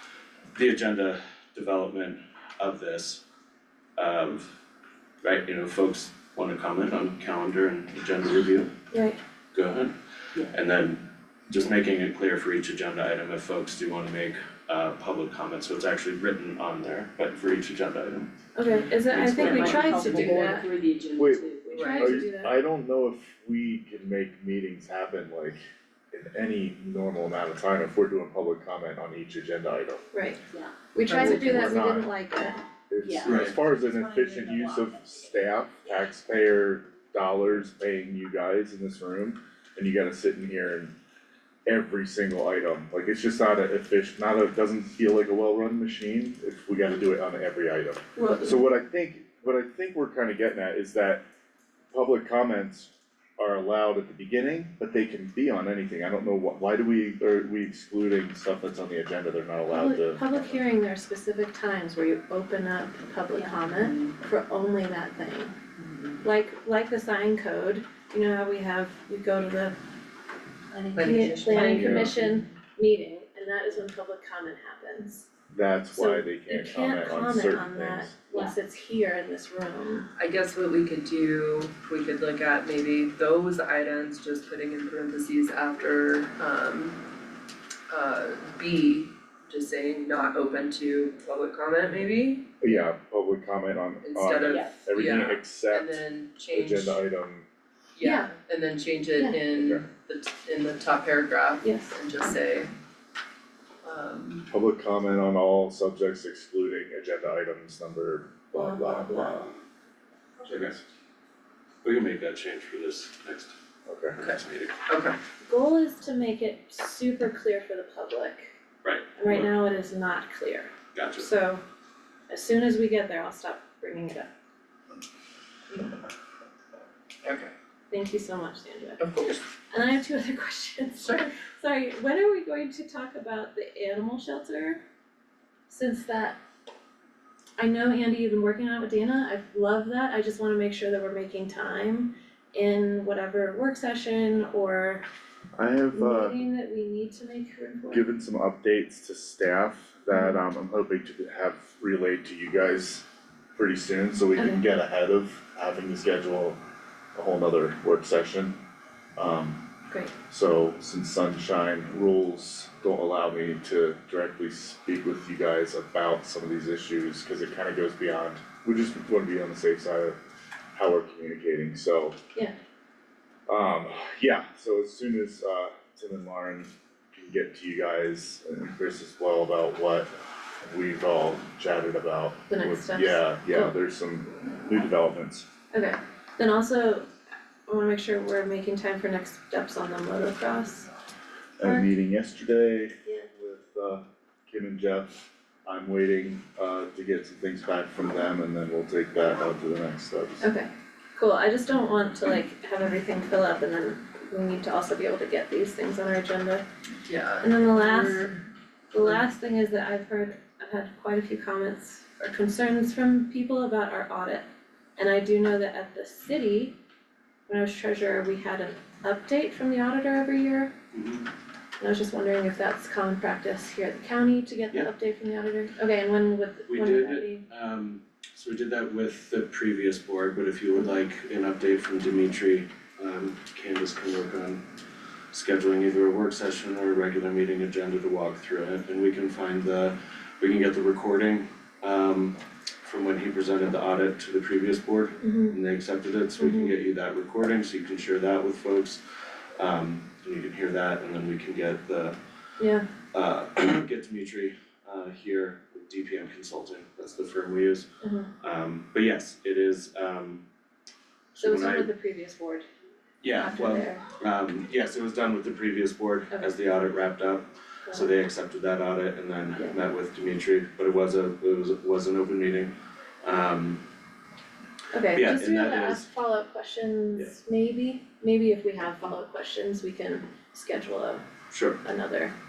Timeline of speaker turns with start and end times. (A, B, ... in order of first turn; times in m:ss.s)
0:00.5-0:03.2 A
0:04.0-0:04.5 A
0:05.2-0:08.7 A
0:08.9-0:09.2 B
0:09.5-0:09.9 A
0:10.5-0:18.3 A
0:18.6-0:20.7 B
0:18.7-0:22.3 C
0:20.0-0:20.4 D
0:21.2-0:25.6 E
0:21.7-0:22.1 D
0:21.7-0:22.6 B
0:26.1-0:30.0 E
0:30.1-0:32.6 B
0:30.5-0:30.8 C
0:31.1-0:31.8 D
0:31.1-0:32.1 E
0:32.9-0:40.9 E
0:33.0-0:34.9 C
0:33.2-0:33.5 A
0:41.7-0:51.2 E
0:48.2-0:48.6 B
0:51.9-1:00.6 E
0:59.7-1:05.5 B
1:03.3-1:04.0 C
1:06.2-1:09.8 B
1:10.7-1:11.0 C
1:10.9-1:12.5 D
1:11.0-1:15.3 B
1:11.6-1:12.2 E
1:15.5-1:18.1 E
1:15.9-1:20.1 B
1:20.2-1:27.0 D
1:27.9-1:32.5 D
1:32.6-1:36.0 E
1:34.0-1:37.0 D
1:34.5-1:34.8 C
1:36.5-1:37.4 E
1:38.0-1:42.7 D
1:38.0-1:38.3 B
1:41.6-1:42.0 B
1:43.8-1:44.5 D
1:44.5-1:49.5 E
1:48.5-1:49.4 B
1:50.5-1:50.8 A
1:51.8-1:53.6 A
1:53.9-1:54.2 E
1:54.2-1:55.2 D
1:54.2-1:54.8 A
1:55.4-1:58.5 B
1:58.8-1:59.5 A
1:59.2-2:01.6 B
2:00.9-2:01.3 A
2:02.3-2:04.3 B
2:07.2-2:07.5 D
2:07.9-2:09.0 B
2:09.0-2:09.4 D
2:09.7-2:14.8 B
2:15.7-2:16.4 B
2:17.6-2:25.0 B
2:25.6-2:26.4 E
2:25.9-2:28.1 B
2:27.9-2:33.0 E
2:33.6-2:36.6 E
2:34.4-2:34.6 B
2:37.2-2:38.6 E
2:39.2-2:39.6 E
2:40.2-2:50.2 E
2:50.7-2:52.2 E
2:53.5-3:00.1 E
3:00.6-3:05.5 E
3:02.5-3:03.7 B
3:05.7-3:07.1 B
3:07.7-3:10.9 B
3:11.6-3:20.5 E
3:11.6-3:11.9 B
3:20.4-3:26.6 B
3:27.1-3:28.4 D
3:27.4-3:28.3 B
3:28.9-3:34.4 B
3:35.0-3:36.8 B
3:37.5-3:40.7 B
3:40.9-3:41.3 A
3:41.8-3:47.4 B
3:46.7-3:54.6 A
3:55.3-4:09.0 A
4:05.2-4:05.6 B
4:06.4-4:06.7 B
4:09.6-4:12.2 A
4:12.6-4:12.9 B
4:13.1-4:17.9 A
4:18.0-4:18.3 B
4:18.4-4:20.4 A
4:21.3-4:21.9 A
4:21.4-4:22.7 B
4:23.2-4:32.7 A
4:23.3-4:24.0 B
4:33.2-4:33.8 A
4:34.9-4:41.2 B
4:35.1-4:36.1 A
4:41.5-4:41.8 A
4:41.8-4:42.3 B